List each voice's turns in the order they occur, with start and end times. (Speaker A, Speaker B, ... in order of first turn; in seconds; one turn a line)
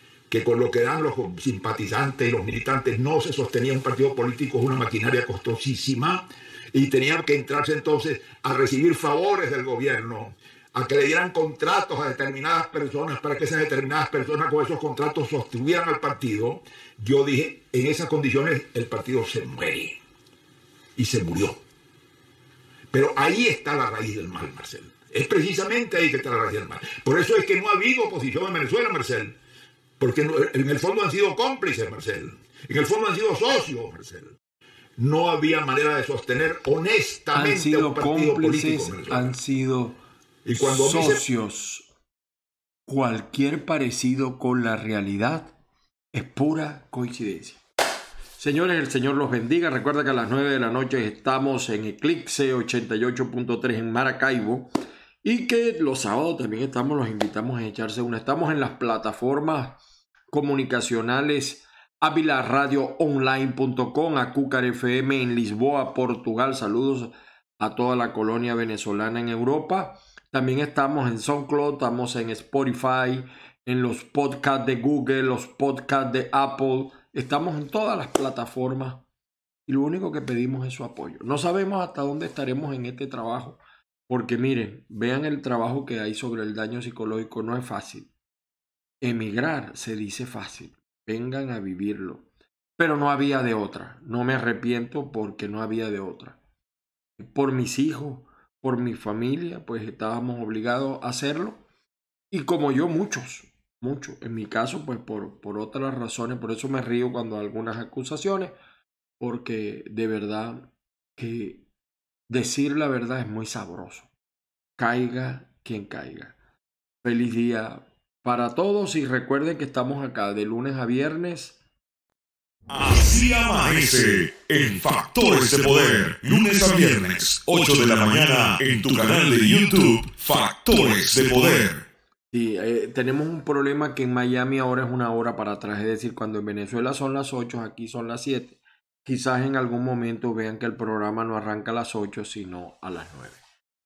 Speaker A: 0.3-20.0
Speaker A: 20.9-21.6
Speaker A: 22.9-29.4
Speaker A: 30.0-34.4
Speaker A: 35.0-39.3
Speaker B: 37.3-40.0
Speaker A: 40.4-41.2
Speaker B: 40.6-41.9
Speaker B: 42.9-45.5
Speaker B: 46.1-47.6
Speaker B: 48.4-54.7
Speaker B: 55.2-59.8
Speaker B: 60.3-79.0
Speaker B: 79.7-88.1
Speaker B: 89.0-92.3
Speaker B: 92.8-96.4
Speaker B: 97.2-101.6
Speaker B: 102.3-108.5
Speaker B: 109.2-111.6
Speaker B: 112.3-114.1
Speaker B: 114.8-116.3
Speaker B: 117.0-121.5
Speaker C: 122.7-131.9
Speaker B: 132.3-143.4